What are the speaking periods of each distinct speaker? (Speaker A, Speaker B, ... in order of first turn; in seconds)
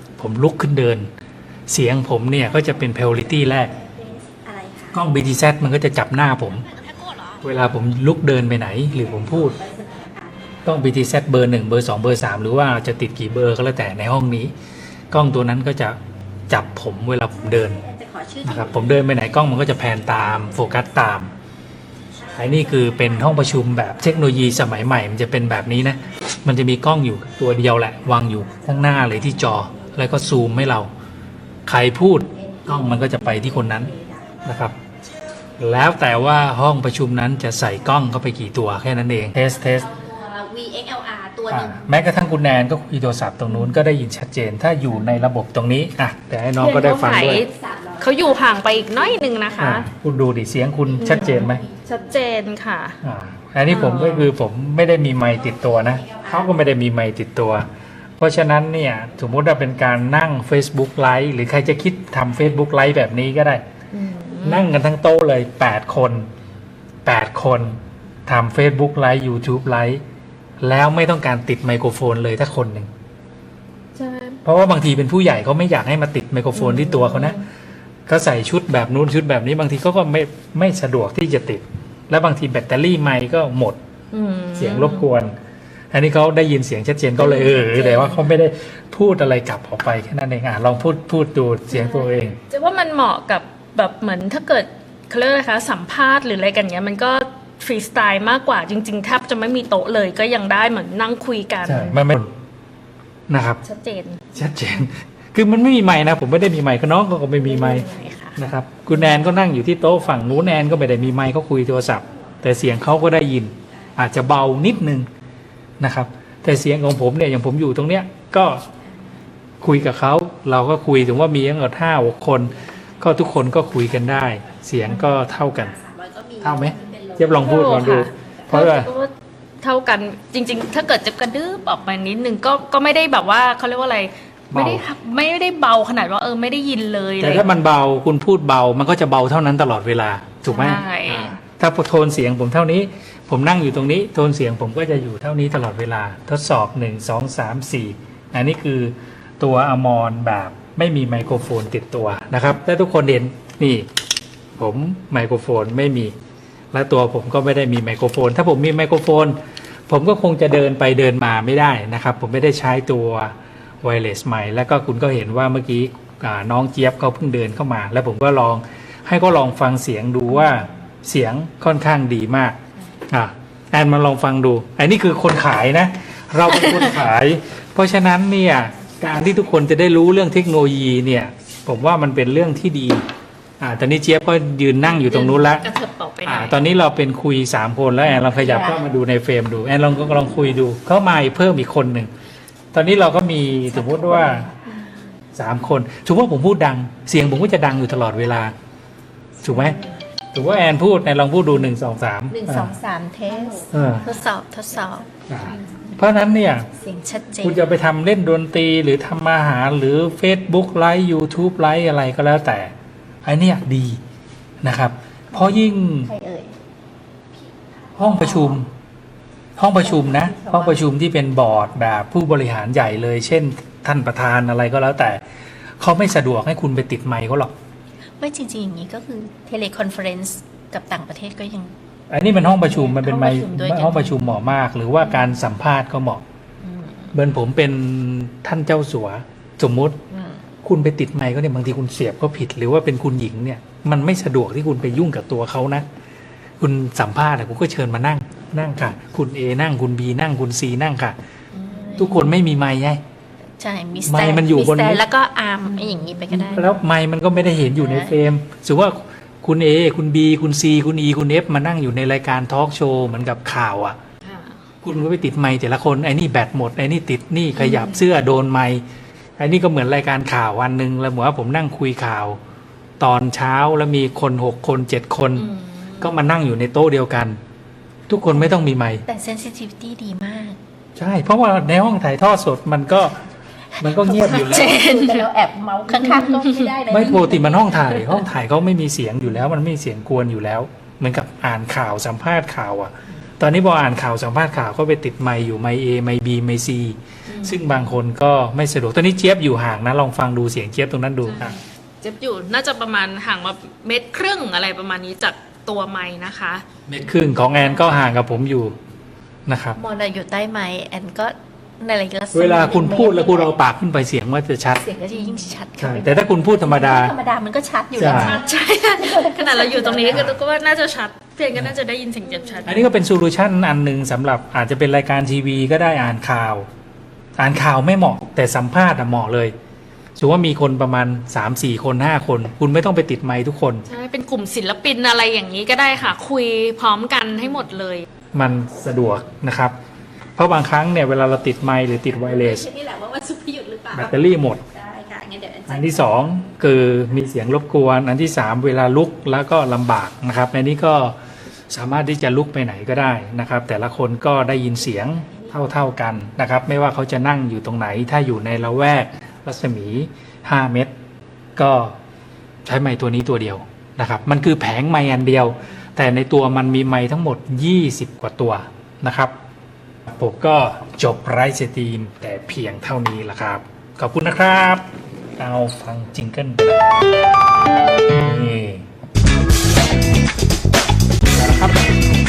Speaker A: 0.2-1.1, 1.7-3.8, 4.9-6.7, 7.4-9.6, 10.7-14.5, 15.1-17.8, 18.4-21.3, 22.4-30.9, 31.7-33.9, 34.5-34.8, 35.6-39.9, 41.5-47.5, 49.6-51.6, 53.0-57.7, 58.2-63.6, 64.4-66.3, 67.0-70.0, 70.6-72.9, 74.4-77.4, 78.1-83.8, 84.6-85.3, 85.9-92.4, 101.6-102.3, 103.3-103.6, 104.3-115.1, 115.8-118.7, 119.6-125.8, 126.4-128.9, 134.5-134.9, 137.2-153.9, 154.6-156.1, 156.7-159.4, 159.9-172.6, 173.1-183.1, 183.6-185.7, 186.2-192.1, 192.7-194.5, 195.3-198.6, 199.4-199.8, 200.3-202.8, 203.7-204.1, 205.3-206.7, 207.4-212.7, 213.2-214.0, 214.6-216.1, 218.0-218.7, 219.6-225.2, 225.8-227.5, 232.1-236.2, 237.1-240.0, 240.6-245.9, 246.6-251.2, 252.0-253.0, 254.1-255.0, 256.3-264.0, 264.8-268.8, 269.4-272.4, 273.0-277.4, 278.1-279.1, 281.0-283.2, 283.8-284.8, 286.9-301.6, 306.9-308.8, 309.5-309.8, 312.3-314.9, 315.8-317.1, 317.9-318.4, 320.1-320.4, 322.6-326.7, 327.4-329.6, 330.2-333.9, 338.3-339.8, 340.4-342.7, 343.9-344.6, 345.7-351.2, 351.7-360.9, 361.6-361.9, 362.6-369.3, 370.1-374.9, 375.4-376.9, 378.1-378.9, 381.4-382.0
Speaker B: 3.7-5.1, 9.0-10.6, 17.4-20.8, 22.2-24.8, 28.4-30.1, 32.4-34.4, 39.6-41.9, 47.1-49.7, 51.0-51.9, 55.5-56.5, 124.8-128.3, 188.3-188.8, 193.7-194.7, 199.5-199.8, 202.3-205.9, 206.7-207.6, 215.3-216.6, 217.4-218.6, 219.8-220.8, 228.2-231.7, 232.7-234.2, 236.6-237.1, 240.1-240.4, 251.6-252.2, 253.6-256.7, 257.8-258.2, 279.1-280.6, 283.8-287.9, 309.8-313.5, 314.8-320.2, 322.3-322.7, 342.1-346.2
Speaker C: 46.6-49.9, 51.0-53.0, 53.7-54.3, 63.9-64.7, 74.0-74.4, 76.5-77.4, 84.1-85.1, 87.2-88.4, 91.7-102.0, 103.6-104.2, 107.4-108.4, 127.4-137.5, 140.5-141.3, 184.9-186.6, 255.8-256.2, 264.2-264.6, 267.6-268.0, 275.4-276.2, 284.2-285.2, 285.9-286.8, 297.3-297.8, 301.3-306.7, 315.2-315.5, 318.1-322.8, 333.9-338.1